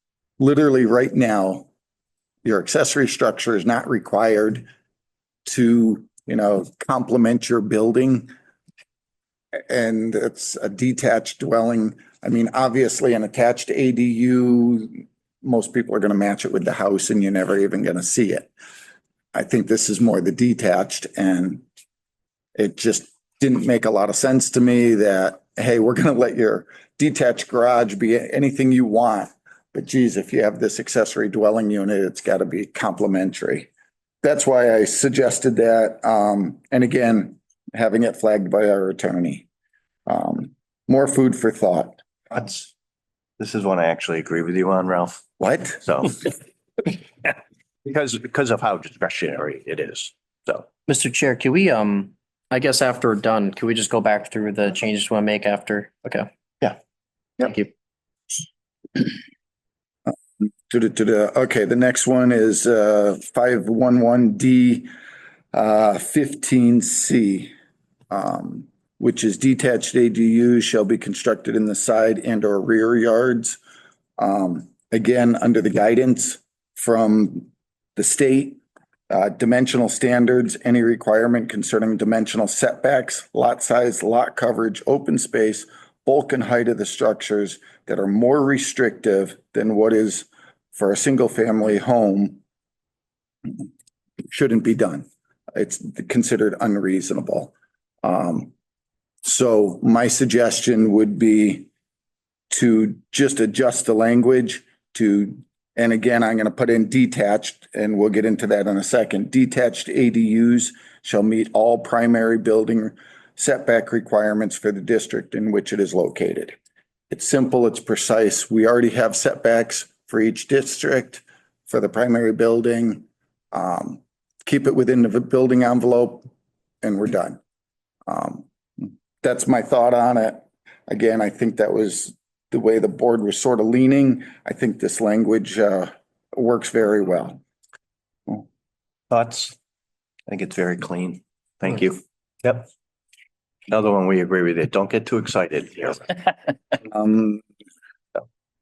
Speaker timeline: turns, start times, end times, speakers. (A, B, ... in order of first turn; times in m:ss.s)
0:00.4-0:01.7 A
0:02.4-0:04.7 A
0:05.4-0:08.3 A
0:09.7-0:18.5 A
0:19.3-0:21.6 A
0:22.6-0:33.7 A
0:34.2-0:39.5 A
0:40.1-0:42.0 A
0:42.3-0:42.7 B
0:43.4-0:45.3 B
0:45.4-0:45.8 A
0:45.8-0:46.2 B
0:47.2-0:50.7 B
0:50.8-0:56.3 C
0:57.4-0:57.7 C
1:00.4-1:04.9 A
1:05.5-1:07.5 A
1:08.1-1:13.6 A
1:14.2-1:32.4 A
1:34.3-1:38.5 A
1:39.2-1:41.7 A
1:42.5-1:56.6 A
1:57.1-2:06.3 A
2:06.8-2:07.4 A
2:08.1-2:17.4 A
2:19.1-2:19.5 B
2:20.3-2:22.7 B
2:23.7-2:26.1 B
2:26.8-2:27.4 A